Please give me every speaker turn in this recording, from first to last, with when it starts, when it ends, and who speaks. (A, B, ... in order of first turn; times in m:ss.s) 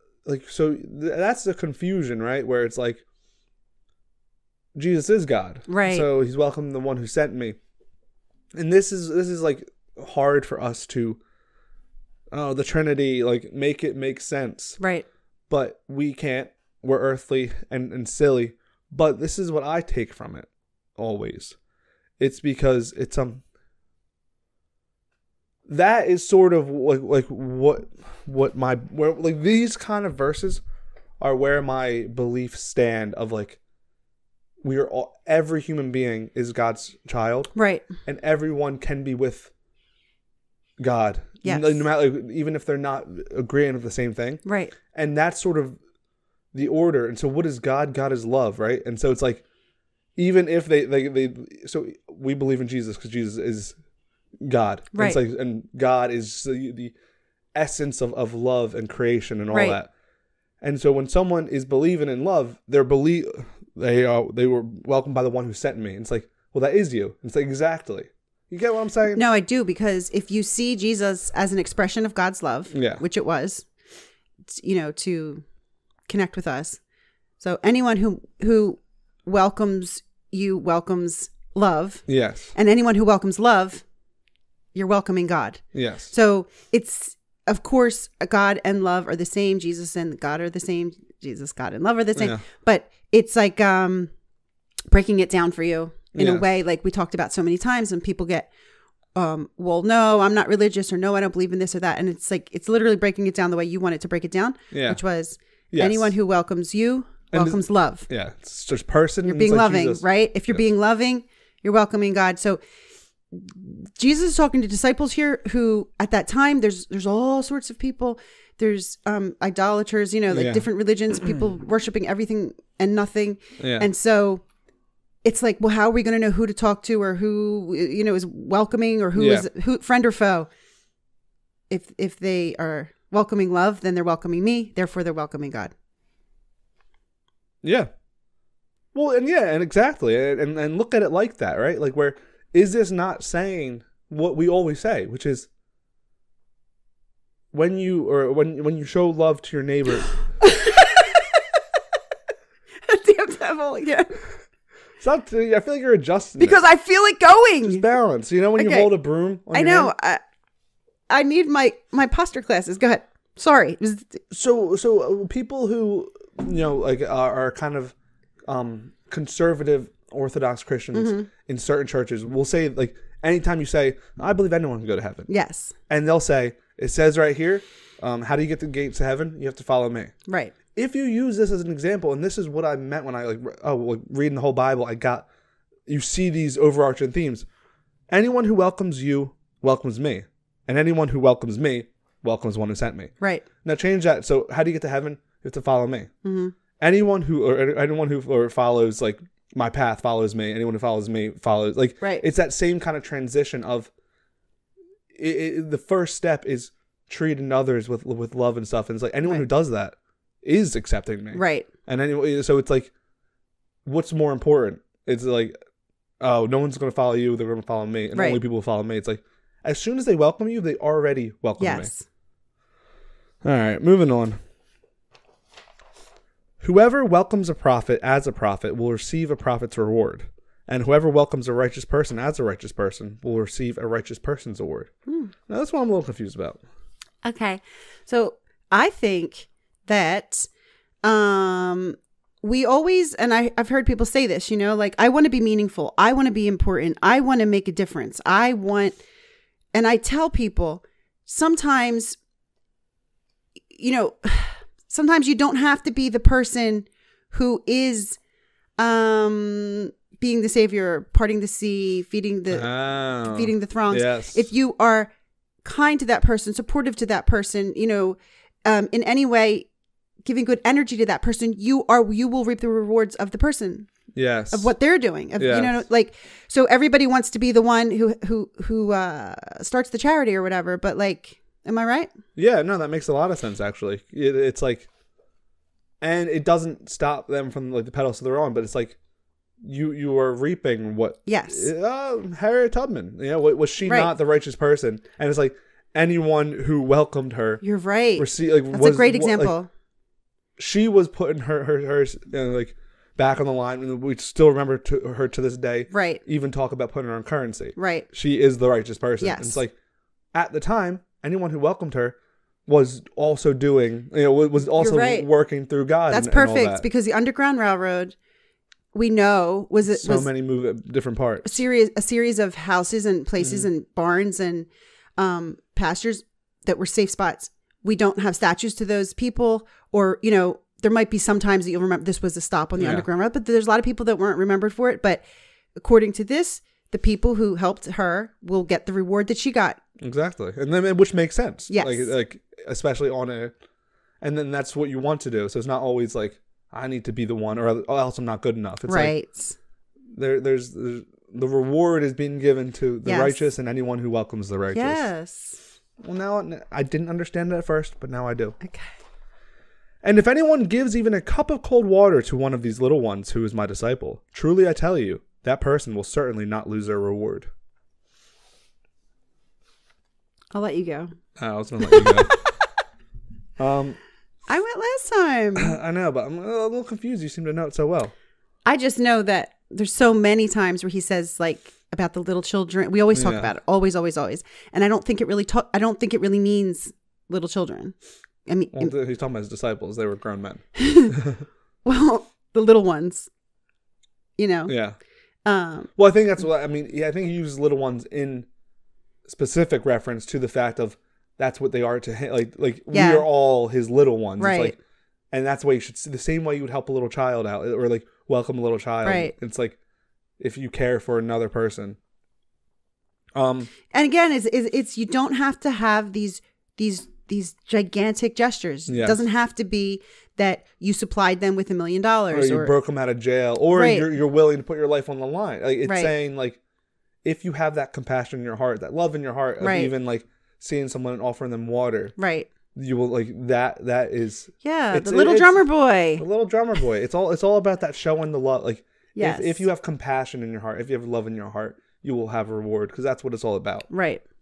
0:00.2-0:03.0 A
0:04.7-0:07.6 A
0:05.7-0:06.1 B
0:08.5-0:11.2 A
0:12.3-0:14.8 A
0:14.8-0:15.0 B
0:15.5-0:21.6 A
0:22.2-0:23.4 A
0:25.7-0:30.6 A
0:31.2-0:33.6 A
0:34.6-0:37.5 A
0:37.5-0:37.8 B
0:38.0-0:39.5 A
0:40.8-0:45.8 A
0:41.4-0:41.8 B
0:44.4-0:44.7 B
0:46.5-0:49.4 A
0:50.2-0:53.8 A
0:54.4-0:56.9 A
0:54.9-0:55.2 B
0:57.5-0:59.9 A
0:59.5-0:59.8 B
1:00.6-1:09.2 A
1:09.1-1:13.6 B
1:12.7-1:13.0 A
1:14.4-1:15.4 B
1:16.1-1:16.8 B
1:17.4-1:23.8 B
1:22.1-1:22.5 A
1:24.7-1:34.1 B
1:25.7-1:26.1 A
1:32.2-1:32.4 A
1:34.9-1:38.5 B
1:36.1-1:36.4 A
1:39.1-1:48.0 B
1:44.7-1:45.0 A
1:45.7-1:46.1 A
1:47.3-1:50.6 A
1:49.2-1:52.6 B
1:53.3-2:04.4 B
2:00.3-2:00.6 A
2:03.6-2:03.9 A
2:05.2-2:10.5 B
2:09.2-2:09.5 A
2:11.7-2:15.7 B
2:17.6-2:17.9 A
2:18.9-2:25.5 A
2:27.5-2:30.1 A
2:30.4-2:31.6 B
2:32.8-2:34.2 B
2:35.0-2:36.6 A
2:36.4-2:37.8 B
2:37.6-2:39.9 A
2:38.6-2:38.9 B
2:39.5-2:40.2 B
2:41.1-2:44.2 B
2:44.3-2:47.9 A
2:48.4-2:55.3 A
2:50.9-2:51.3 B
2:55.3-2:55.7 B
2:55.9-3:00.1 A
3:00.3-3:00.5 B
3:00.7-3:05.3 A
3:05.9-3:07.4 A
3:08.1-3:16.1 A
3:16.2-3:16.5 B
3:16.8-3:23.9 A
3:25.1-3:32.9 A
3:31.3-3:31.7 B
3:33.8-3:35.6 A
3:36.2-3:41.9 A
3:38.1-3:38.4 B
3:41.6-3:42.0 B
3:43.4-3:44.4 A
3:46.6-3:54.9 A
3:55.1-3:55.3 B
3:55.5-3:56.6 A
3:57.2-4:00.5 B
4:01.0-4:09.0 B
4:09.7-4:12.2 B
4:13.7-4:18.2 B
4:18.8-4:25.1 B
4:22.5-4:24.4 A
4:25.6-4:29.7 B
4:30.2-4:33.9 B
4:34.1-4:34.7 A
4:34.5-4:42.1 B
4:35.4-4:35.8 A
4:42.3-4:44.9 A
4:46.0-4:49.0 A
4:49.6-4:57.6 A
4:51.2-4:51.7 B
4:53.8-4:54.1 B
4:57.6-4:59.7 B
4:58.2-4:59.6 A
5:00.6-5:09.7 A
5:05.9-5:06.2 B
5:07.8-5:08.1 B
5:09.2-5:09.6 B
5:10.3-5:16.8 A
5:14.7-5:15.3 B
5:16.1-5:18.1 B
5:18.9-5:20.3 B
5:19.9-5:21.5 A
5:21.4-5:35.2 B
5:23.4-5:23.7 A
5:32.8-5:33.0 A
5:35.8-5:39.8 B
5:40.0-5:43.5 A
5:41.7-5:42.1 B
5:44.2-5:49.1 A
5:48.8-5:49.6 B
5:50.2-5:55.1 A
5:53.0-5:53.4 B
5:54.7-5:55.6 B
5:56.0-5:58.6 A
5:58.6-5:58.9 B
6:00.0-6:07.5 A
6:10.5-6:11.1 B
6:11.4-6:12.4 A
6:11.9-6:12.4 B
6:13.6-6:14.0 A
6:14.5-6:15.7 B
6:15.6-6:18.1 A
6:18.6-6:27.9 B
6:23.1-6:23.5 A
6:28.4-6:28.9 B
6:28.7-6:31.4 A
6:30.8-6:31.1 B
6:31.8-6:33.3 B
6:34.4-6:34.7 B
6:34.7-6:35.0 A
6:35.4-6:35.9 B
6:36.0-6:38.5 A
6:39.2-6:44.8 A
6:42.9-6:43.3 B
6:44.4-6:44.7 B
6:45.3-6:49.8 A
6:49.0-6:49.3 B
6:50.4-6:52.0 A
6:53.3-6:53.7 A
6:53.9-7:02.7 B
6:58.9-6:59.2 A
7:02.3-7:06.6 A
7:03.7-7:04.1 B
7:05.8-7:06.1 B
7:07.2-7:12.1 A
7:09.6-7:09.9 B
7:12.2-7:12.5 B
7:12.7-7:15.6 A
7:14.6-7:16.2 B
7:16.2-7:23.9 A
7:19.1-7:19.7 B
7:23.9-7:24.2 B